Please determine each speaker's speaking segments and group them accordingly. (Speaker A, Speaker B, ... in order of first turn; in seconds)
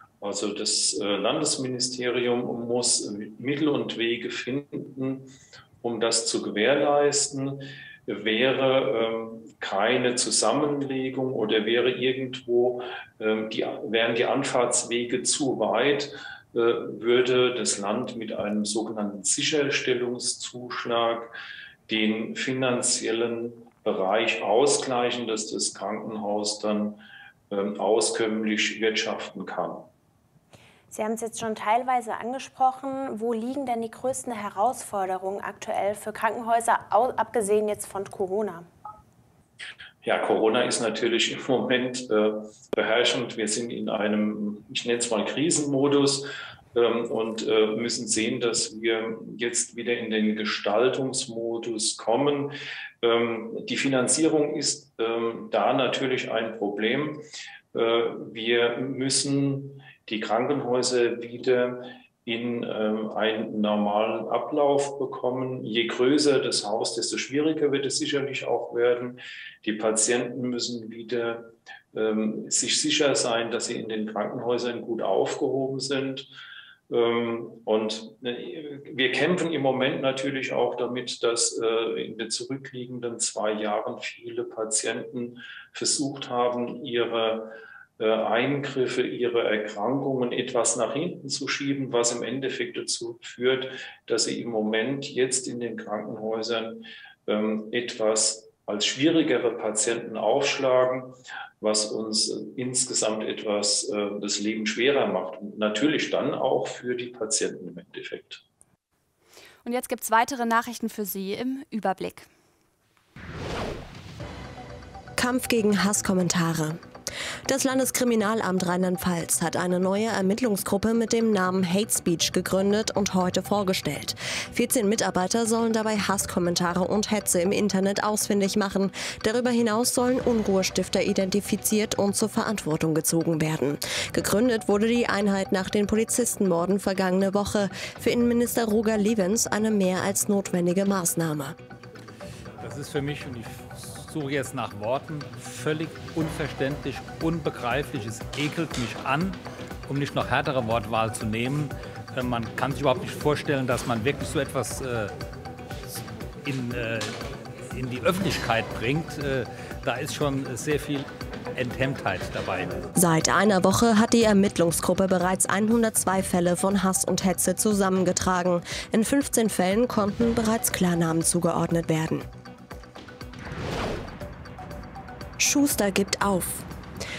Speaker A: 0.2-5.3, 5.8-21.3, 21.9-29.9, 40.0-57.2, 57.7-76.3, 76.9-108.4
Speaker B: 30.9-38.6
Speaker C: 109.6-112.3
Speaker D: 115.2-116.8, 117.5-141.5, 162.9-172.2, 175.4-176.6
Speaker E: 142.7-149.3, 149.9-154.9, 156.4-157.1, 157.7-161.0, 161.6-162.7